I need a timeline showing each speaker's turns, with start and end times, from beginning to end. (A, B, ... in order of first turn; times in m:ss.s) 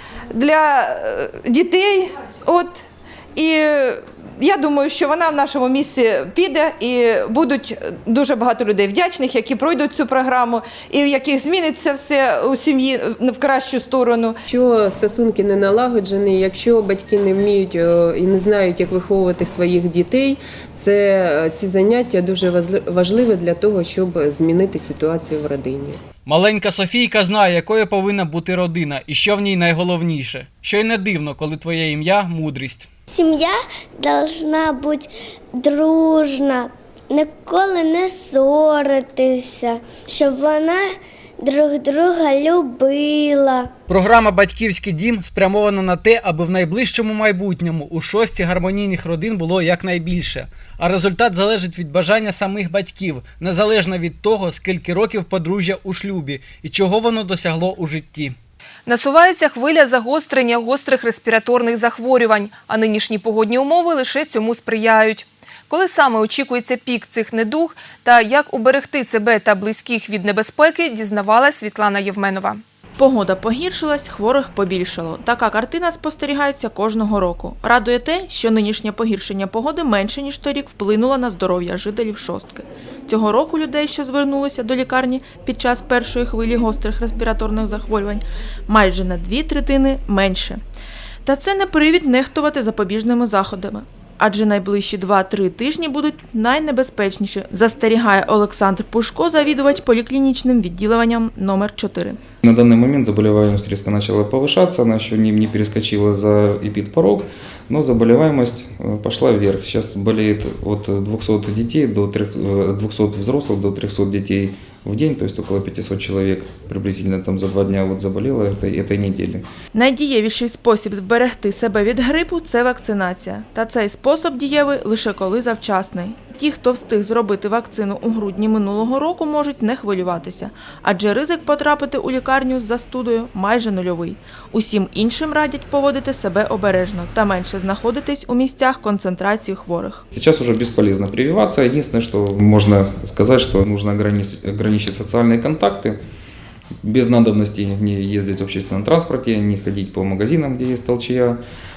0:00.3-0:14.4 A
0:14.5-0:26.0 B
0:26.3-0:32.9 C
0:33.1-0:43.7 D
0:43.9-0:58.4 C
0:58.9-1:12.6 E
1:13.0-1:30.6 F
1:31.2-1:42.2 F
1:42.4-1:59.4 G
1:59.7-2:20.0 F
2:20.1-2:26.0 G
2:26.8-2:31.4 G